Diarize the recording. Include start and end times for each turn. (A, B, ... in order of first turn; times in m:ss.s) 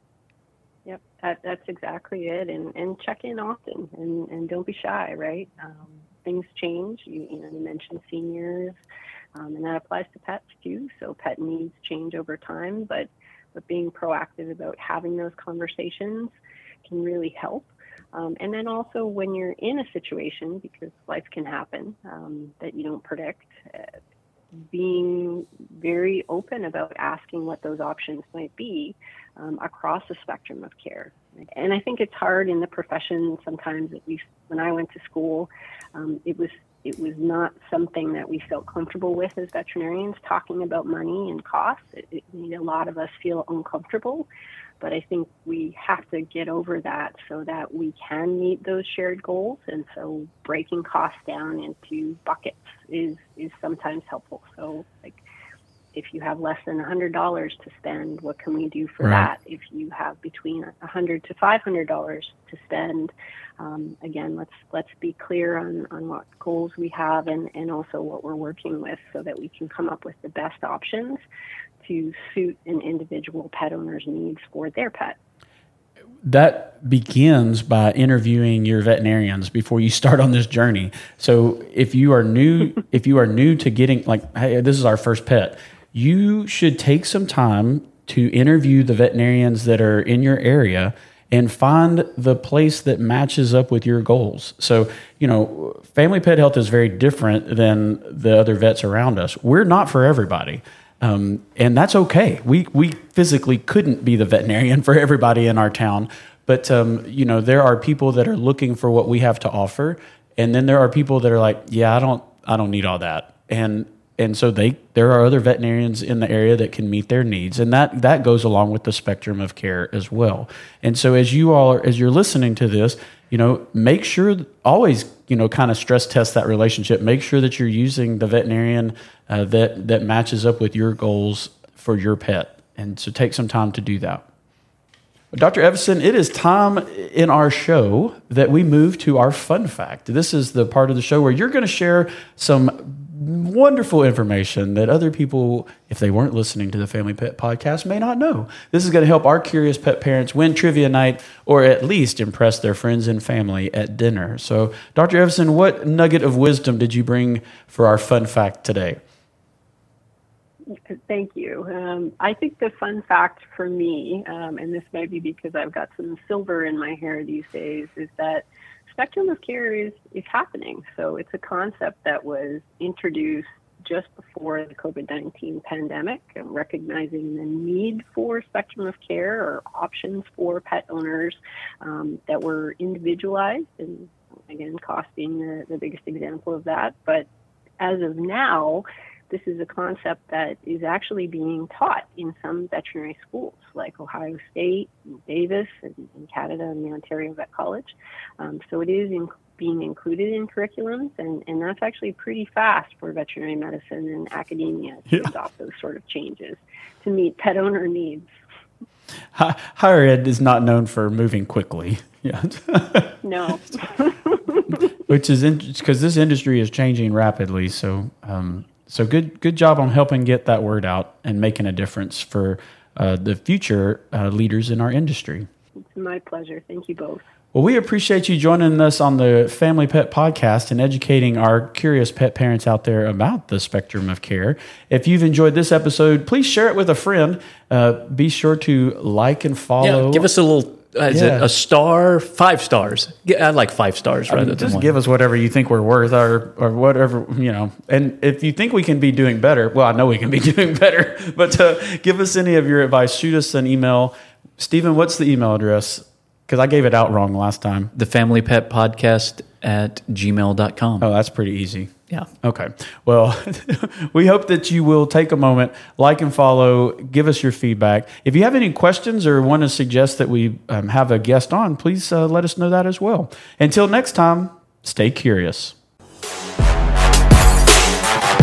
0:00.8-0:08.8 A
0:09.3-0:23.9 A
0:24.7-0:44.3 A
0:44.8-0:55.2 A
0:55.9-1:11.2 A
0:59.0-0:59.3 B
1:11.8-1:15.2 A
1:16.2-2:14.2 B
2:15.3-2:39.0 B
2:40.9-3:07.3 A
3:07.8-3:28.3 A
3:29.3-3:33.2 B
3:33.2-3:34.8 A
3:35.0-3:45.5 B
3:45.9-3:47.2 A
3:47.5-4:00.3 B
3:59.8-4:04.9 C
4:01.1-4:01.5 B
4:04.3-4:17.9 B
4:17.9-4:21.1 C
4:21.0-4:35.8 B